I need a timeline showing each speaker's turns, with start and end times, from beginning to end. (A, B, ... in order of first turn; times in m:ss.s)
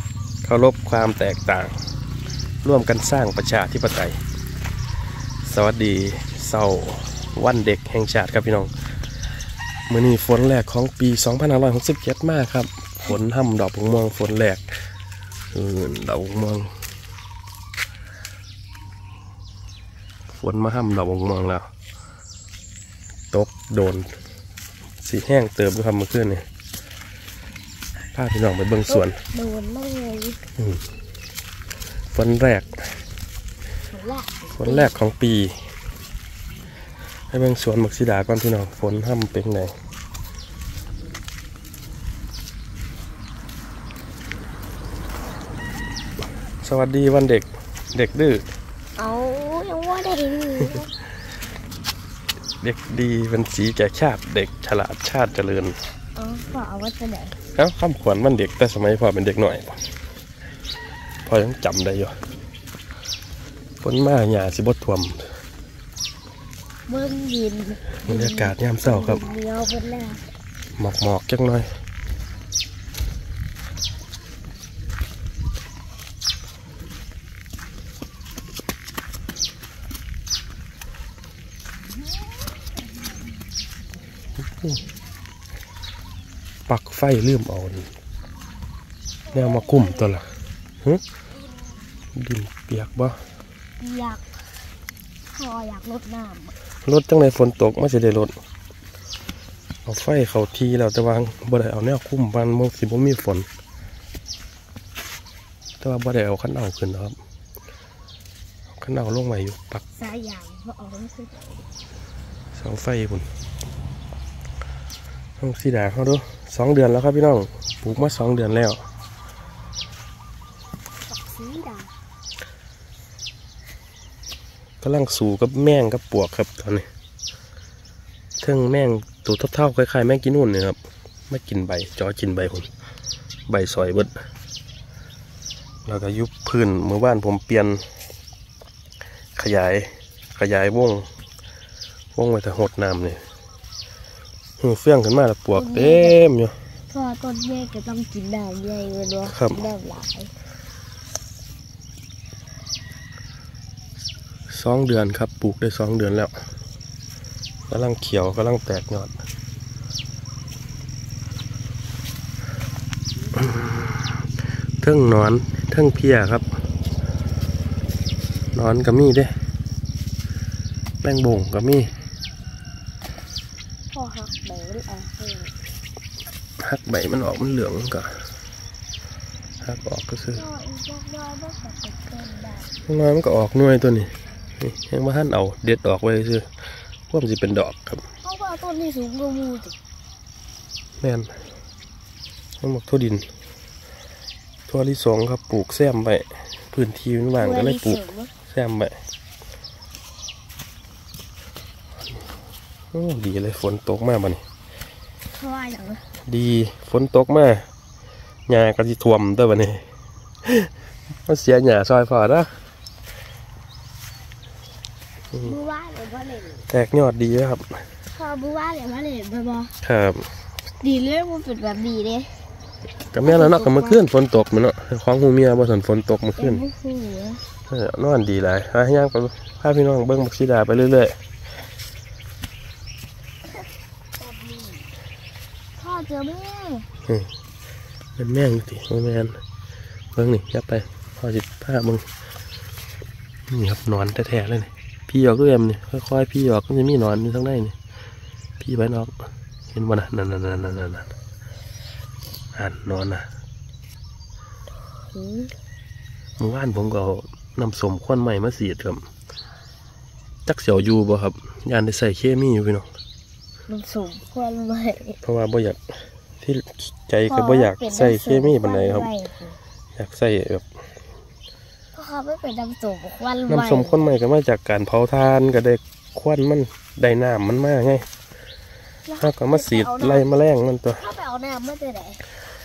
0:00.4-0:01.7 A
0:02.6-0:04.2 A
0:05.5-0:08.7 A
0:09.9-0:14.6 A
0:15.5-0:16.7 A
0:20.3-0:21.7 A
0:23.3-0:24.1 A
0:25.0-0:26.4 A
0:28.1-0:29.2 A
0:28.9-0:30.4 B
0:32.1-0:32.7 A
0:33.9-0:34.9 B
0:34.6-0:35.6 A
0:37.3-0:39.7 A
0:46.6-0:48.4 A
0:49.0-0:50.9 B
0:52.6-0:55.8 A
0:56.2-0:57.4 B
0:57.6-0:59.8 A
1:01.2-1:02.2 A
1:03.8-1:05.2 A
1:06.9-1:10.2 B
1:08.1-1:09.2 A
1:10.8-1:11.7 A
1:26.7-1:27.9 A
1:29.3-1:30.1 B
1:29.3-1:30.3 A
1:32.2-1:33.2 A
1:33.8-1:34.2 B
1:35.4-1:36.6 B
1:36.8-1:38.3 A
1:39.9-1:43.5 A
1:45.8-1:47.2 A
1:48.8-1:49.8 A
1:49.9-1:51.6 B
1:52.5-1:53.3 A
1:55.4-1:58.8 A
2:01.1-2:01.9 B
2:04.8-2:06.9 A
2:08.4-2:10.8 A
2:11.3-2:12.7 A
2:13.5-2:14.1 A
2:15.9-2:17.8 A
2:19.4-2:21.1 A
2:22.2-2:23.2 A
2:24.6-2:26.5 A
2:25.5-2:26.2 B
2:26.9-2:30.3 B
2:29.2-2:29.6 A
2:34.5-2:36.3 A
2:37.7-2:39.1 A
2:43.4-2:44.2 A
2:44.8-2:46.4 A
2:48.5-2:49.3 A
2:51.0-2:51.9 A
2:53.9-2:55.5 B
2:56.6-2:58.1 A
2:59.6-3:00.4 A
3:00.4-3:02.7 B
3:02.9-3:06.4 A
3:07.1-3:08.0 A
3:08.2-3:09.8 B
3:11.0-3:11.3 A
3:12.6-3:13.2 A
3:14.7-3:18.9 A
3:17.4-3:18.3 B
3:22.9-3:24.4 A
3:25.3-3:26.0 B
3:26.3-3:27.7 A
3:28.5-3:29.8 A
3:30.4-3:30.7 A
3:31.3-3:32.5 A
3:35.4-3:36.7 B
3:36.7-3:37.6 A
3:38.1-3:39.7 B
3:39.8-3:40.2 A
3:40.8-3:42.3 B
3:43.1-3:46.6 A
3:43.2-3:44.0 B
3:46.4-3:47.4 B
3:47.7-3:51.2 A
3:54.2-3:54.9 B
3:55.8-3:56.9 B
3:58.2-3:59.4 A
4:00.2-4:02.0 A
4:03.5-4:07.8 A
4:08.6-4:09.1 A
4:09.7-4:11.1 A
4:12.6-4:13.3 A
4:15.1-4:15.5 B
4:16.4-4:19.0 A
4:20.5-4:22.9 A
4:23.7-4:25.2 B
4:25.2-4:25.8 A
4:26.4-4:29.1 A
4:27.3-4:29.6 B
4:30.0-4:30.7 A
4:31.9-4:34.1 B
4:33.5-4:38.1 A
4:39.0-4:40.3 B
4:39.2-4:41.0 A
4:41.0-4:42.2 B